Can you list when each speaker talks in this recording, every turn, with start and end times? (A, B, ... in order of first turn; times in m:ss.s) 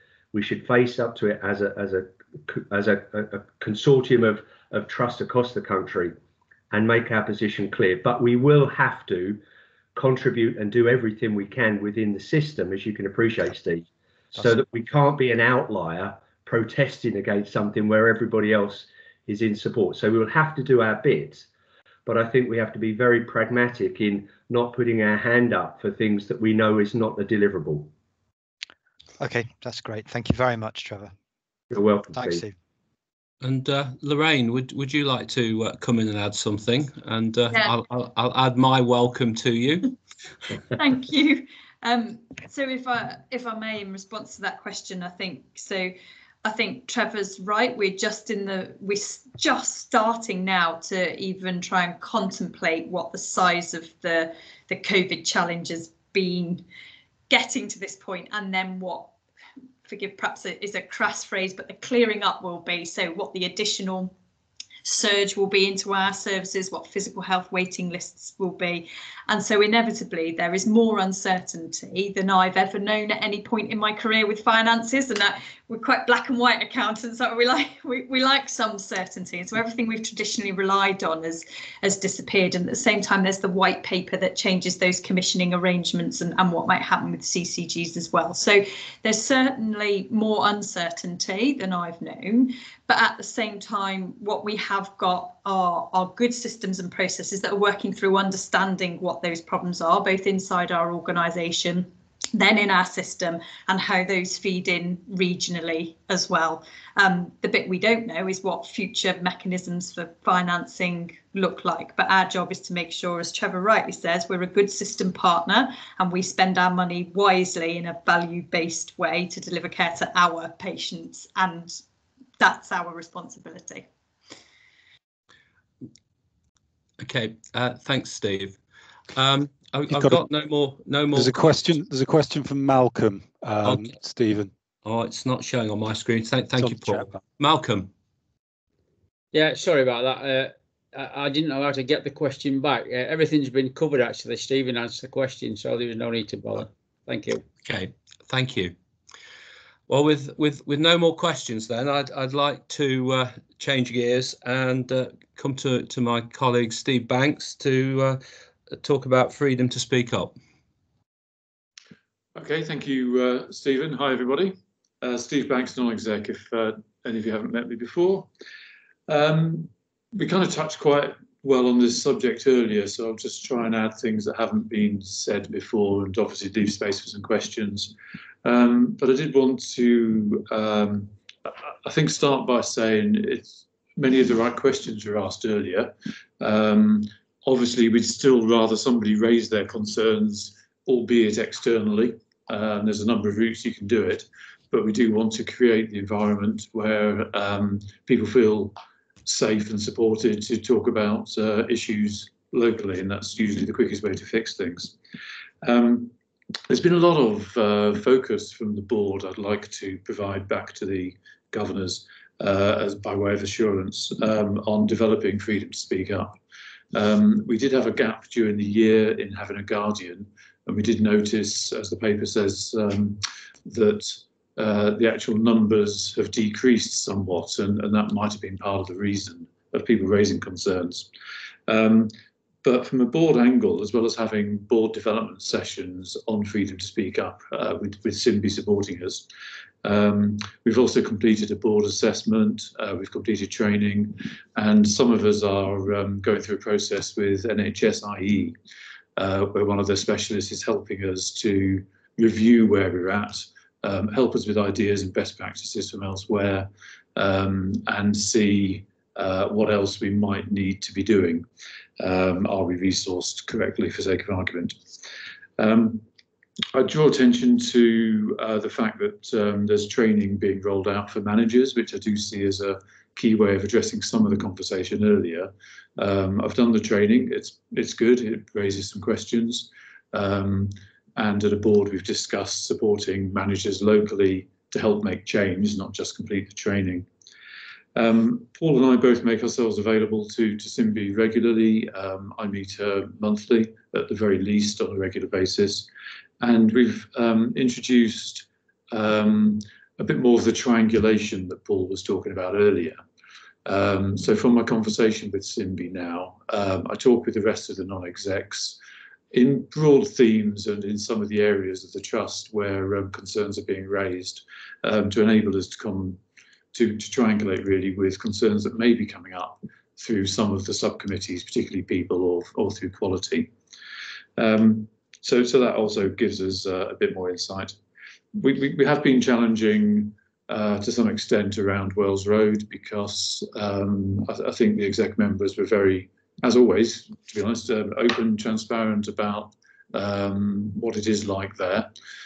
0:00.3-0:06.2 A
0:06.7-0:09.4 A
0:10.0-0:21.5 A
0:22.1-0:27.9 A
0:29.2-0:31.1 B
0:31.7-0:32.5 A
0:32.1-0:32.5 B
0:33.4-0:39.9 C
0:40.8-0:56.6 D
0:57.3-0:59.1 D
0:59.8-1:04.1 D
1:04.8-2:01.8 D
2:02.4-2:03.9 D
2:07.0-2:08.6 C
2:09.1-2:11.4 C
2:09.9-2:10.2 E
2:11.1-2:14.5 E
2:13.6-2:13.9 C
2:14.8-2:17.9 C
2:16.6-2:17.1 E
2:19.3-2:27.4 F
2:27.6-2:28.7 C
2:29.9-2:38.2 C
2:38.7-2:40.4 C
2:42.4-2:48.3 G
2:49.1-2:57.9 G
2:58.4-3:01.1 G
3:01.8-3:25.0 G
3:25.6-3:26.1 G
3:26.7-3:36.4 G
3:36.9-3:51.1 G
3:51.7-3:52.1 G
3:52.6-3:59.2 G
3:59.8-4:08.6 G
4:09.2-4:21.5 G
4:22.0-4:24.8 G
4:25.6-4:26.0 G
4:26.7-4:47.1 G
4:48.0-4:55.9 G
4:56.4-5:03.0 G
5:03.7-5:08.8 G
5:09.3-5:16.2 G
5:16.7-5:23.5 G
5:24.4-5:27.8 G
5:28.4-5:41.9 G